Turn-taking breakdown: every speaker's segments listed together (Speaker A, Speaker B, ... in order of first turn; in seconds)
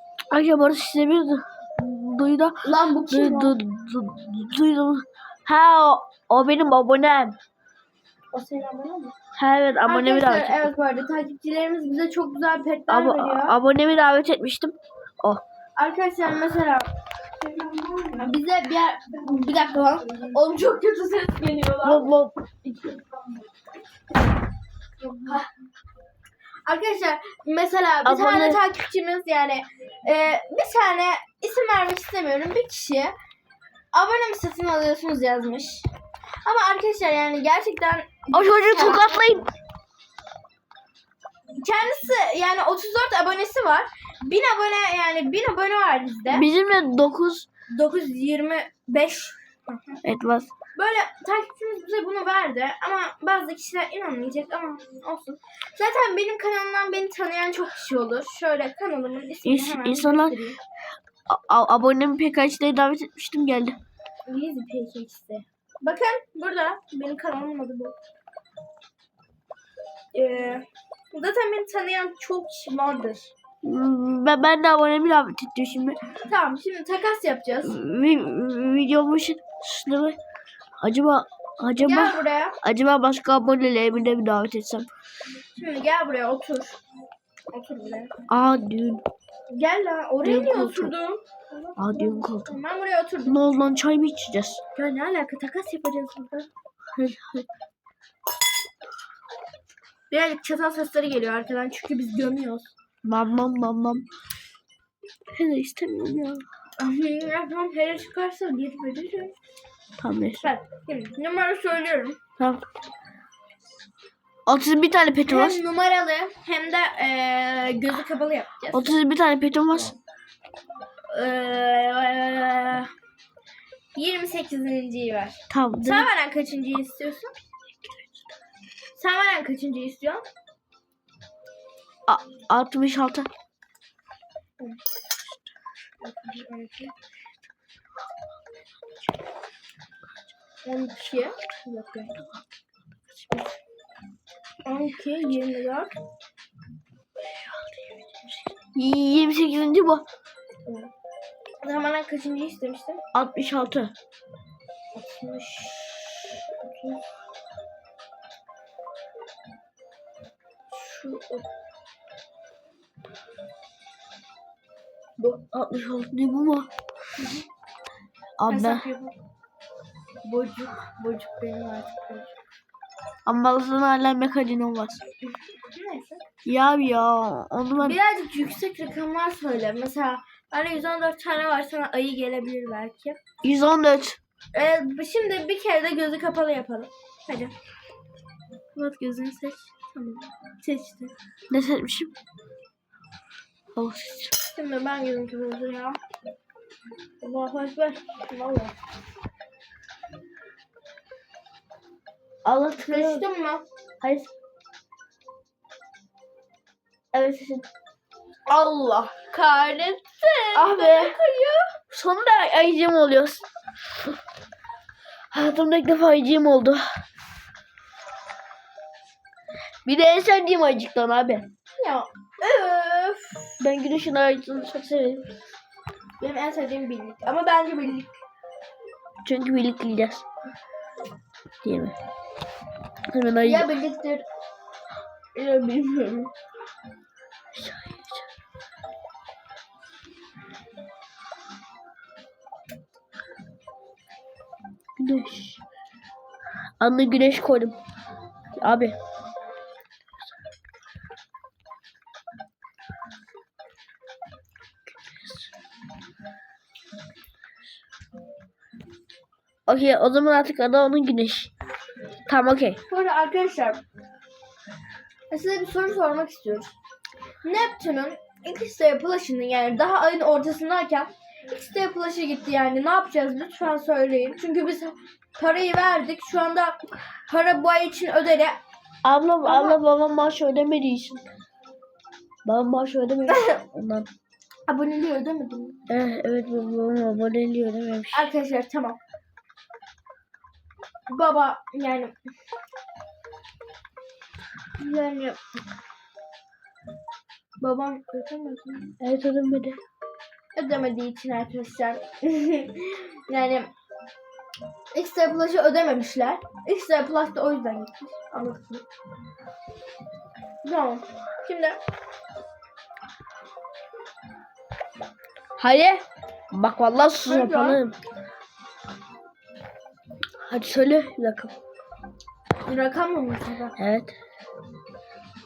Speaker A: 0.3-7.3, 9.3-10.6, 12.9-15.4, 21.8-22.5, 28.0-28.6, 38.3-39.5, 46.3-47.5, 50.0-50.5, 59.4-60.4, 61.3-63.8, 73.6-76.0, 77.6-80.2, 80.8-84.9, 88.3-89.0, 90.2-90.9, 91.8-92.5, 93.2-94.6, 96.9-97.5, 103.0-104.0, 105.3-106.4, 110.0-110.5, 112.4-112.6, 114.5-115.6, 118.7-120.0, 125.5-126.1, 127.8-128.1, 132.1-133.3, 148.6-150.0, 153.1-153.9, 165.2-166.7, 168.4-168.9, 173.2-175.0, 176.4-178.0, 183.4-184.2, 191.5-192.1, 193.7-194.4, 202.4-203.2, 204.0-204.3, 207.1-207.7, 210.5-211.2, 211.9-213.4, 215.3-216.8, 219.8-221.5, 223.6-225.3, 229.2-230.2, 231.6-231.9, 233.1-233.7, 237.5-238.2, 245.0-245.6, 246.8-247.8, 248.6-249.0, 255.1-255.5, 259.7-261.5, 262.3-262.8, 279.0-281.2, 282.4-284.1, 285.9-288.3, 299.0-299.8, 315.6-318.0, 320.4-321.5, 323.8-324.1
Speaker B: 2.6-3.5, 8.3-9.2, 9.8-13.6, 15.8-16.9, 17.8-22.1, 25.0-25.5, 26.6-33.1, 33.9-35.9, 36.4-39.5, 41.6-46.5, 47.7-50.0, 50.7-60.6, 64.3-68.0, 70.1-73.3, 76.2-77.7, 81.7-82.6, 85.5-86.8, 87.5-88.1, 89.5-93.4, 94.7-96.5, 100.1-102.7, 106.8-109.3, 110.4-112.2, 115.3-118.9, 121.1-122.9, 123.9-127.3, 128.9-130.2, 136.0-136.9, 140.6-142.1, 144.6-145.9, 151.6-153.0, 154.9-157.0, 160.7-161.4, 167.2-167.5, 168.5-169.2, 170.2-172.3, 175.5-176.2, 177.8-183.2, 184.5-187.5, 188.7-191.1, 194.5-196.0, 197.2-198.8, 202.8-203.6, 208.5-211.7, 221.8-223.6, 226.2-228.2, 233.4-234.2, 235.3-236.3, 262.9-263.8, 265.3-266.7, 267.4-278.6, 279.4-279.8, 283.3-283.6, 284.7-285.8, 288.1-289.0, 291.1-292.1, 294.8-295.4, 297.6-298.9, 300.5-303.7, 304.9-308.9, 310.6-311.8, 317.0-317.8, 322.7-323.8